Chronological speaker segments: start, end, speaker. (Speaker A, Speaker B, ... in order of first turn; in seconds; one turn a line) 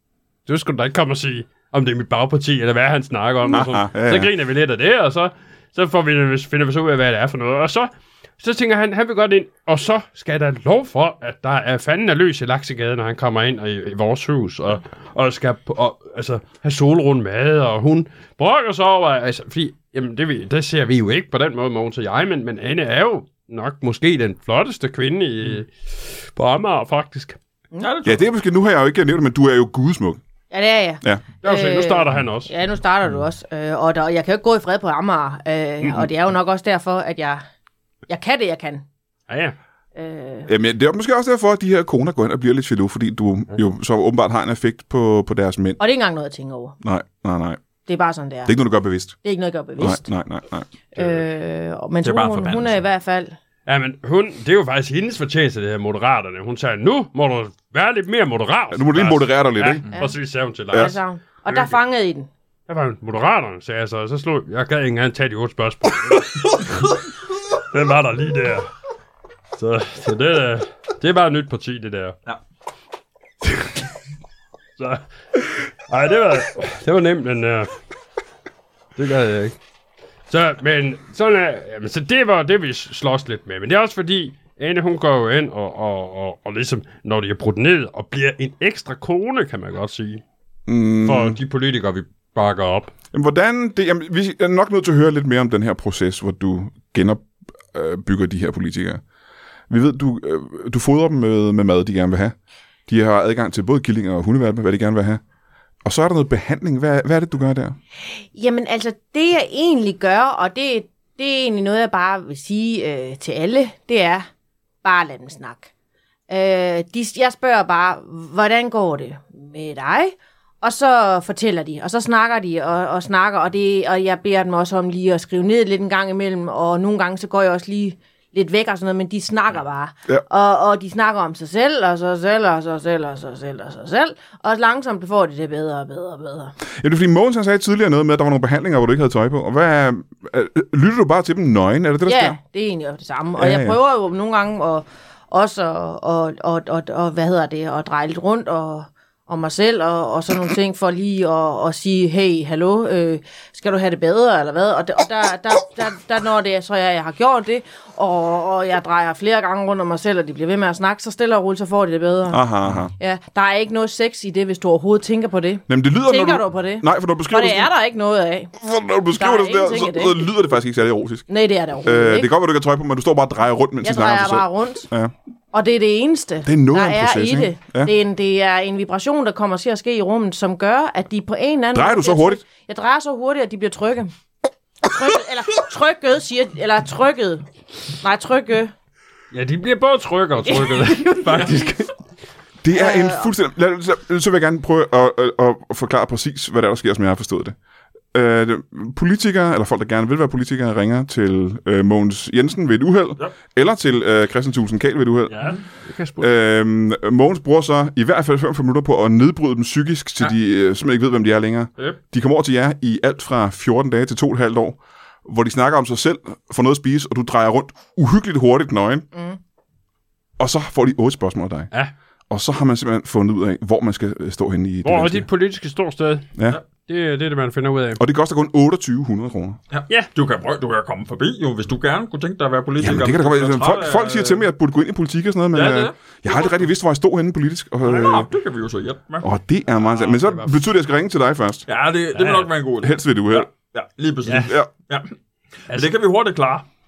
Speaker A: 0.5-27.4
Speaker B: 3.5-4.3
Speaker C: 27.8-28.2
Speaker B: 28.1-30.2
Speaker D: 30.5-37.4
Speaker A: 31.4-32.5
Speaker D: 38.1-38.9
Speaker A: 39.3-39.6
Speaker D: 40.0-40.5
Speaker B: 40.5-45.8
Speaker D: 45.8-46.8
Speaker B: 46.8-47.6
Speaker D: 47.9-48.5
Speaker B: 48.5-49.2
Speaker D: 49.2-50.1
Speaker B: 49.8-51.0
Speaker D: 50.9-53.4
Speaker C: 52.0-52.8
Speaker A: 53.7-61.8
Speaker B: 58.7-59.8
Speaker D: 60.7-62.3
Speaker A: 62.7-67.0
Speaker A: 67.7-68.7
Speaker A: 69.6-72.2
Speaker A: 74.8-77.7
Speaker A: 79.0-79.5
Speaker A: 80.3-90.2
Speaker B: 90.7-91.4
Speaker A: 91.0-92.9
Speaker B: 93.1-99.0
Speaker B: 99.7-102.3
Speaker B: 102.9-105.2
Speaker B: 105.8-107.8
Speaker D: 108.3-114.3
Speaker D: 114.8-115.7
Speaker D: 116.3-136.5
Speaker B: 136.8-142.4
Speaker D: 142.1-162.4
Speaker B: 143.4-143.8
Speaker B: 162.3-162.9
Speaker D: 163.0-168.5
Speaker B: 165.7-167.7
Speaker B: 168.6-171.3
Speaker D: 169.2-170.3
Speaker D: 171.3-172.3
Speaker B: 171.8-175.1
Speaker D: 173.8-174.9
Speaker D: 175.5-184.1
Speaker B: 176.4-177.9
Speaker B: 181.7-182.4
Speaker D: 184.8-187.4
Speaker D: 188.0-188.7
Speaker A: 189.3-191.8
Speaker D: 190.4-191.5
Speaker C: 191.2-191.8
Speaker B: 192.6-197.6
Speaker D: 192.7-193.3
Speaker B: 198.1-205.5
Speaker C: 205.3-205.6
Speaker A: 205.5-206.3
Speaker B: 206.2-219.1
Speaker D: 219.1-219.4
Speaker B: 220.4-221.7
Speaker B: 222.3-225.3
Speaker A: 224.8-228.0
Speaker B: 228.0-229.6
Speaker C: 229.7-234.4
Speaker B: 232.8-238.3
Speaker C: 235.5-236.7
Speaker C: 237.8-239.3
Speaker B: 239.2-241.7
Speaker A: 239.8-240.6
Speaker C: 241.7-245.1
Speaker A: 242.2-242.5
Speaker B: 242.8-243.5
Speaker A: 244.3-244.6
Speaker C: 245.7-246.7